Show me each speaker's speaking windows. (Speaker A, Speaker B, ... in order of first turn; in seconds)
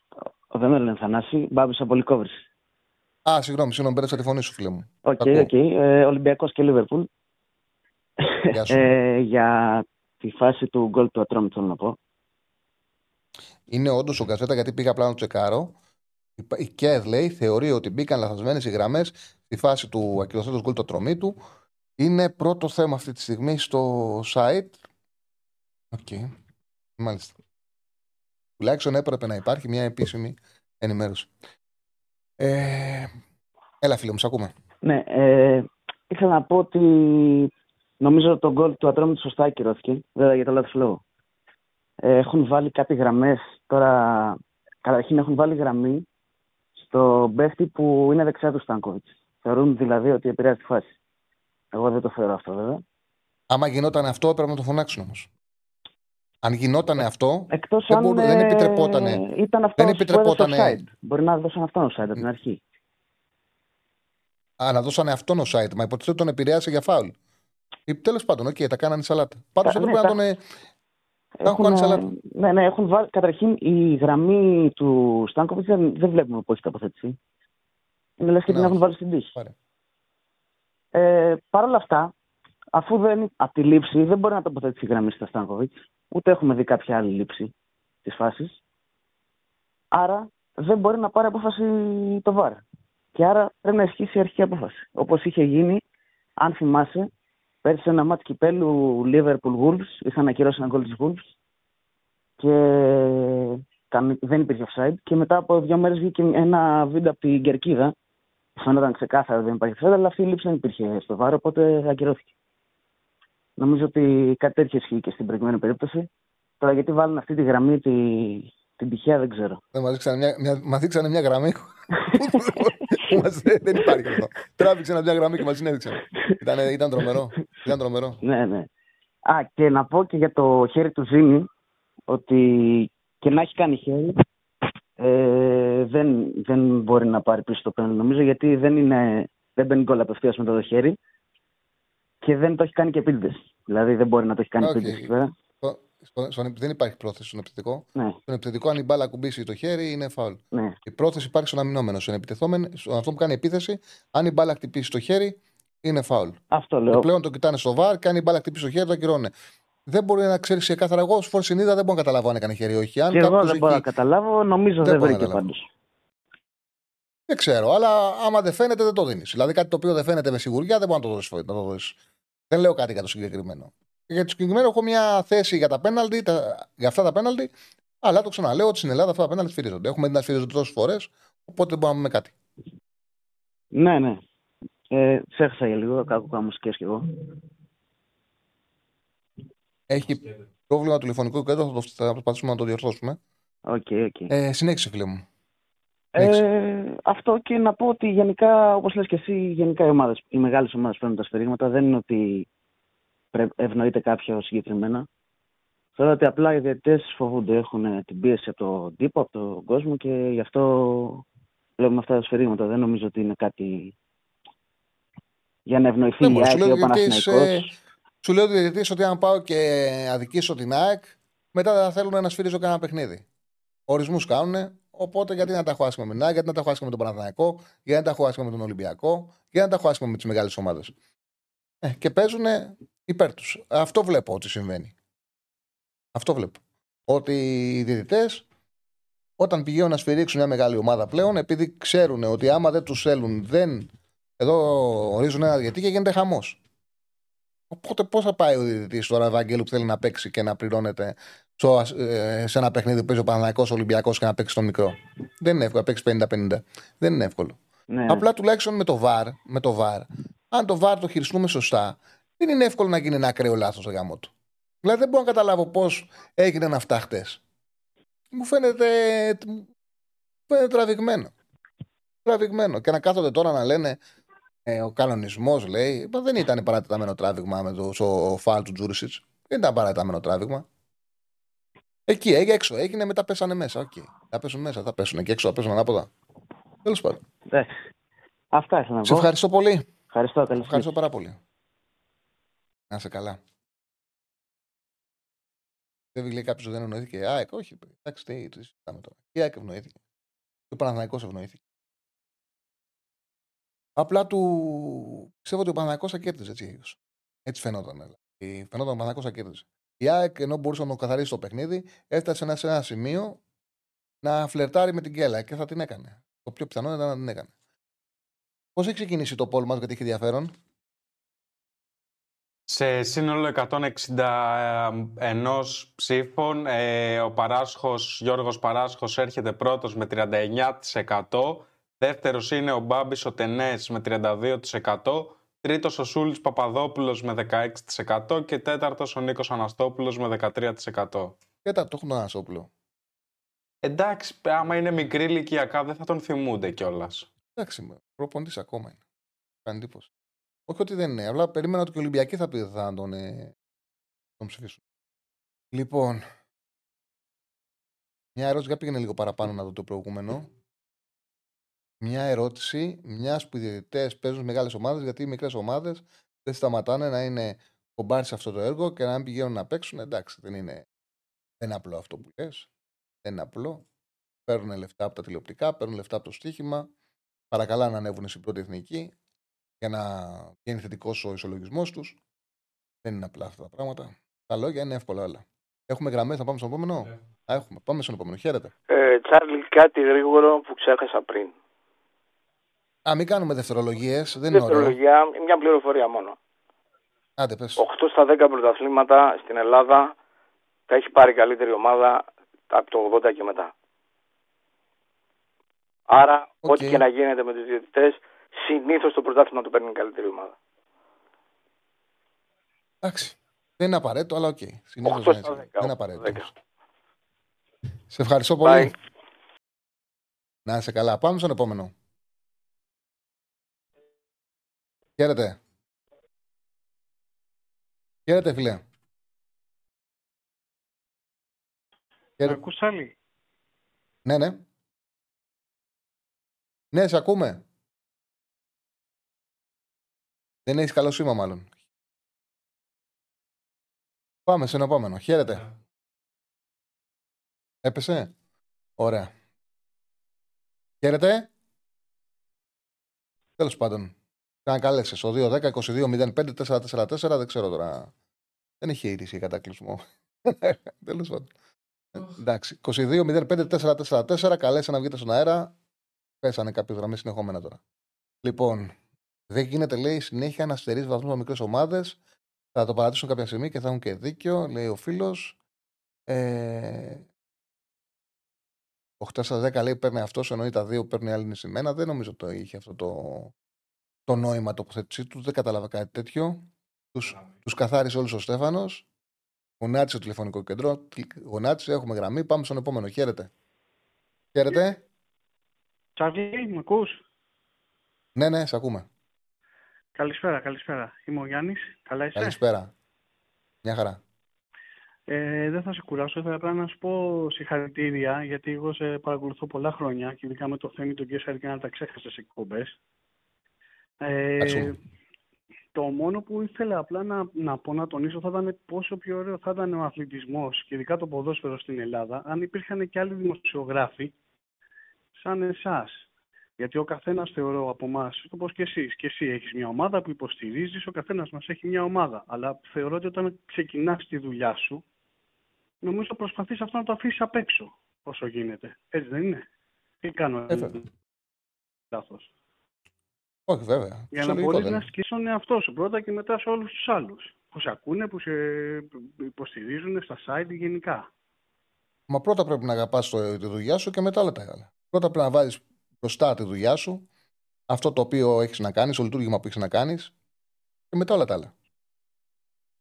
Speaker A: 0.5-2.4, 5.0-7.1, 8.3-11.9, 34.8-37.5, 38.0-41.0, 42.0-46.1, 46.8-51.0, 51.7-52.8, 57.5-62.6, 69.7-70.2, 71.4-77.2, 78.2-79.3, 81.0-82.1, 82.7-87.5, 88.0-88.6, 89.9-92.6, 93.2-95.8, 96.4-97.1, 97.6-101.3, 102.4-107.9, 108.6-112.3, 113.6-116.1, 116.6-119.6, 128.2-128.7, 129.3-131.5, 132.1-134.2, 135.0-141.0, 142.2-145.3, 156.5-157.1, 163.1-165.7, 183.8-184.2, 184.9-187.3, 193.7-194.3, 196.2-202.4, 203.3-205.1, 205.9-211.2, 211.8-213.9, 215.7-217.7, 257.9-258.2, 287.5-287.8, 288.5-289.3, 290.1-290.9
Speaker B: 3.3-5.5, 8.5-8.9, 13.7-15.7, 16.4-21.4, 22.0-24.8, 25.9-26.3, 27.0-27.3, 28.6-31.3, 32.4-33.1, 33.8-34.5, 53.5-55.3, 56.4-59.2, 59.8-60.8, 64.6-67.1, 67.9-70.4, 71.5-72.1, 78.5-79.5, 119.7-128.2, 144.6-145.1, 145.6-156.4, 156.9-159.3, 159.9-163.8, 164.8-165.4, 167.3-172.0, 172.5-177.5, 178.0-182.3, 189.9-193.2, 194.3-195.2, 196.2-196.4, 216.2-217.7, 218.2-223.2, 223.9-230.9, 231.8-234.9, 236.2-238.4, 239.4-246.6, 247.7-264.3, 264.8-267.4, 268.3-269.7, 270.5-271.3, 272.3-274.0, 274.7-280.7, 282.1-286.1, 286.9-287.2, 289.0-289.9, 290.6-291.4, 292.9-293.4, 296.1-300.0, 300.7-301.6, 304.0-313.4, 314.2-317.5, 318.8-320.5, 341.6-342.7, 347.6-349.0, 349.7-350.1, 350.7-353.5, 354.4-354.8, 355.7-356.2, 358.4-360.5, 362.0-370.9, 371.6-372.7, 373.2-373.8, 374.5-376.9, 377.5-379.1, 379.8-382.2, 383.0-388.7, 393.1-394.9, 397.4-397.8, 406.6-407.0, 413.0-416.5, 418.1-418.9, 420.7-421.9, 425.2-425.6, 428.3-428.8, 434.2-434.6, 436.9-437.6, 440.7-441.7, 444.5-445.7, 447.8-448.3, 449.0-449.3, 451.0-451.5, 453.6-454.1, 454.7-458.1, 458.8-461.5, 462.1-465.7, 466.4-467.8, 468.4-468.9, 469.5-472.2, 472.7-475.6, 476.3-477.2, 479.2-483.5, 484.3-489.1, 489.8-493.5, 494.5-495.0, 498.4-499.1, 502.4-502.9, 503.8-504.2, 514.6-514.9, 540.7-541.0, 543.7-545.1, 552.3-557.2, 557.9-560.3, 561.1-561.7
Speaker C: 322.7-341.4, 343.8-347.3
Speaker D: 388.9-391.5, 394.5-396.4, 397.8-400.1, 400.9-403.7, 406.1-410.6, 415.0-416.5, 418.6-418.9
Speaker E: 432.4-433.1, 496.2-497.2, 500.2-502.6, 505.3-513.0, 514.2-515.0, 515.9-524.3, 525.4-526.2, 526.8-535.0, 536.0-539.6, 540.2-541.0, 542.1-542.5, 544.3-551.3